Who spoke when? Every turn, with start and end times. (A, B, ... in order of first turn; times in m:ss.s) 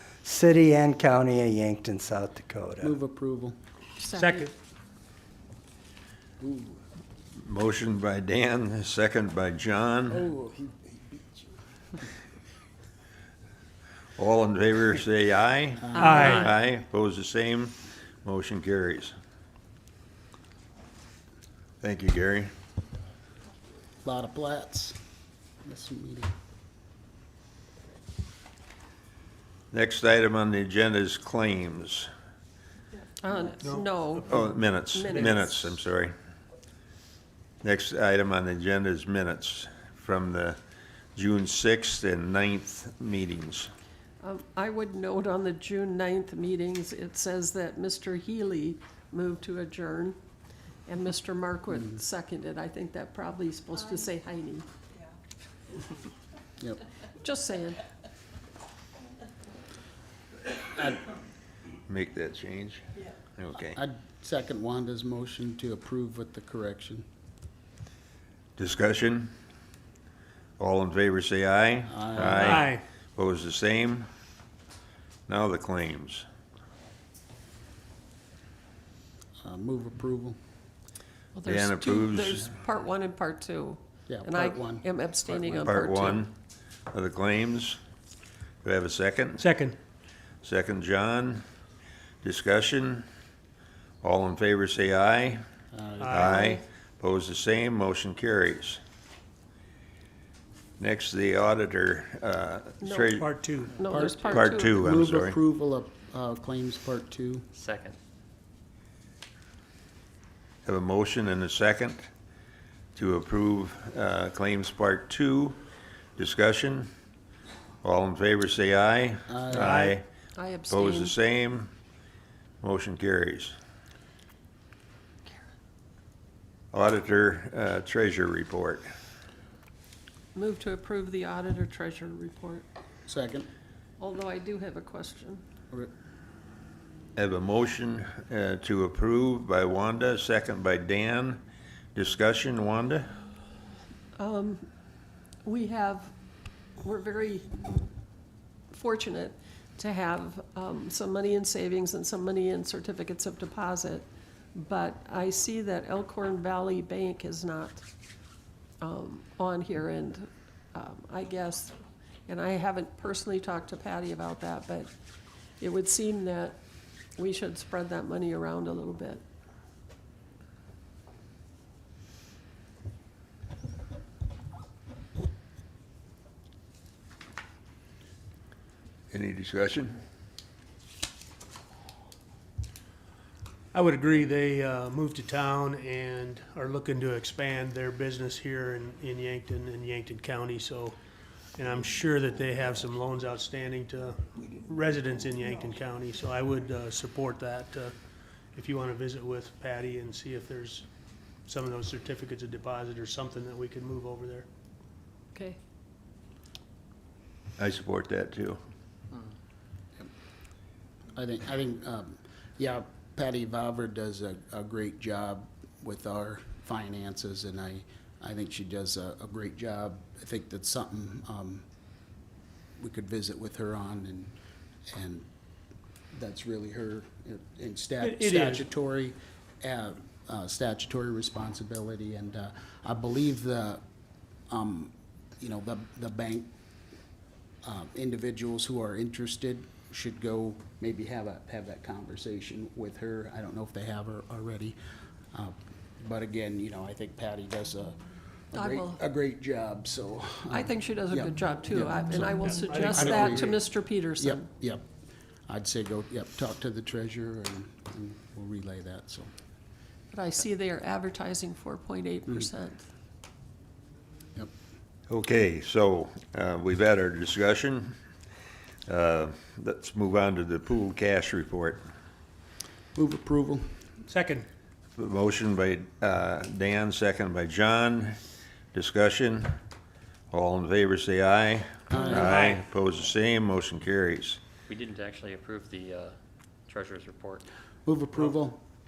0:00.2-0:03.0 A
0:02.8-0:03.6 B
0:04.0-0:04.5 C
0:04.1-0:04.5 D
0:06.4-0:06.8 B
0:07.4-0:10.2 E
0:10.1-0:11.6 B
0:14.2-0:19.1 E
0:15.8-0:16.3 B
0:16.0-0:16.5 C
0:16.0-0:16.4 D
0:21.8-0:22.5 E
0:24.0-0:25.0 B
0:25.6-0:26.3 B
0:29.7-0:32.1 E
0:33.2-0:35.7 C
0:33.6-0:34.4 D
0:34.3-0:36.1 E
0:35.1-0:35.4 D
0:37.6-0:40.6 E
0:41.2-0:43.7 E
0:44.2-0:50.2 C
0:50.9-0:54.7 C
0:57.2-0:57.8 C
1:01.9-1:02.8 E
1:03.4-1:03.8 E
1:03.7-1:07.0 B
1:08.6-1:09.3 E
1:10.6-1:14.1 E
1:11.9-1:12.7 B
1:12.3-1:12.8 D
1:15.3-1:16.3 E
1:19.4-1:20.4 B
1:21.3-1:26.3 C
1:21.4-1:22.5 E
1:24.1-1:26.0 B
1:25.6-1:26.3 E
1:26.9-1:27.8 E
1:28.6-1:29.5 E
1:29.4-1:29.8 D
1:30.4-1:31.4 E
1:32.2-1:33.1 E
1:34.0-1:35.4 E
1:35.7-1:36.6 B
1:36.0-1:36.4 D
1:36.1-1:38.8 E
1:40.8-1:43.3 E
1:42.8-1:44.8 C
1:43.1-1:43.8 D
1:43.8-1:47.5 B
1:44.2-1:45.4 E
1:47.6-1:48.0 F
1:50.7-1:52.1 E
1:53.0-1:55.6 E
1:56.2-1:56.9 E
1:57.8-2:00.0 E
1:59.3-1:59.9 B
1:59.6-2:00.0 D
2:00.4-2:01.2 C
2:00.7-2:01.7 E
2:02.6-2:03.5 E
2:06.7-2:08.8 E
2:10.4-2:12.7 C
2:13.1-2:13.5 B
2:14.0-2:15.4 C
2:17.2-2:21.4 E
2:22.0-2:23.1 E
2:24.2-2:24.7 C
2:25.4-2:26.1 C
2:26.8-2:27.5 C
2:28.7-2:37.8 C
2:38.8-2:41.8 C
2:42.3-2:44.9 C
2:45.6-2:46.6 C
2:47.2-2:49.2 C
2:59.1-3:00.0 E
3:03.7-3:11.0 D
3:11.6-3:17.9 D
3:18.5-3:20.9 D
3:21.5-3:24.5 D
3:25.3-3:25.6 C
3:27.6-3:28.6 E
3:31.2-3:41.6 B
3:42.8-3:44.3 B
3:44.9-3:45.3 B
3:46.1-3:53.8 B
3:48.0-3:48.6 D
3:54.5-3:56.5 B
3:57.6-4:04.8 B
4:05.3-4:13.6 B
4:08.5-4:09.0 C
4:10.5-4:14.5 C
4:12.4-4:13.6 D
4:14.2-4:14.9 B
4:15.5-4:19.3 B
4:20.1-4:22.9 C
4:25.1-4:28.0 E
4:28.9-4:31.8 E
4:33.0-4:34.0 B
4:34.1-4:34.5 D
4:35.0-4:38.2 E
4:38.7-4:39.5 E
4:40.3-4:44.4 E
4:41.9-4:42.3 B
4:42.2-4:42.6 D
4:44.7-4:46.2 F
4:46.7-4:47.4 F
4:47.9-4:48.6 B